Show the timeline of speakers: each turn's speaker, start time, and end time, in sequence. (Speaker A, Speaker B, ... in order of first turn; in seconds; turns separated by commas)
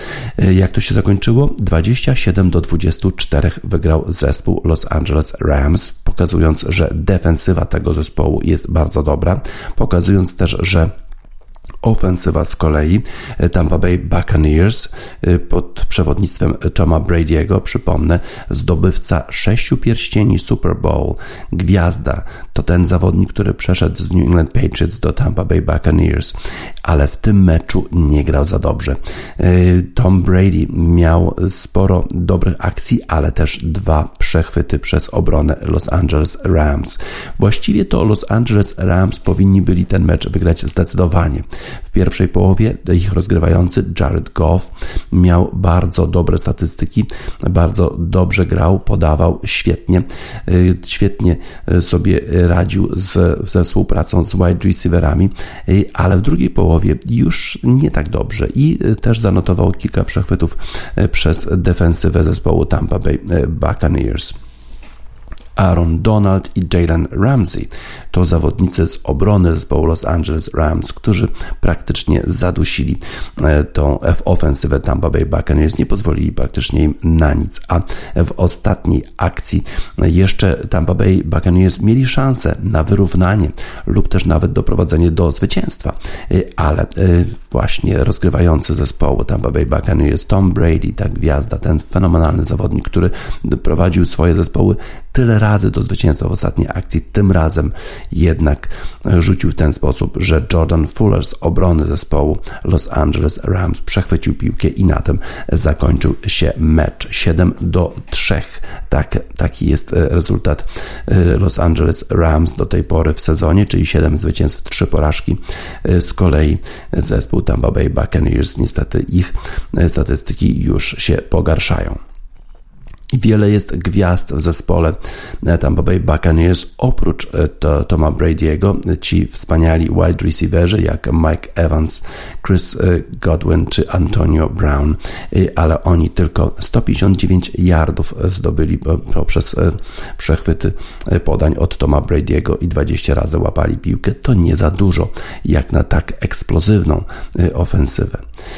Speaker A: 0.4-10.9, Speaker A: 11.8-64.3, Speaker A: 65.6-122.0, Speaker A: 123.1-148.2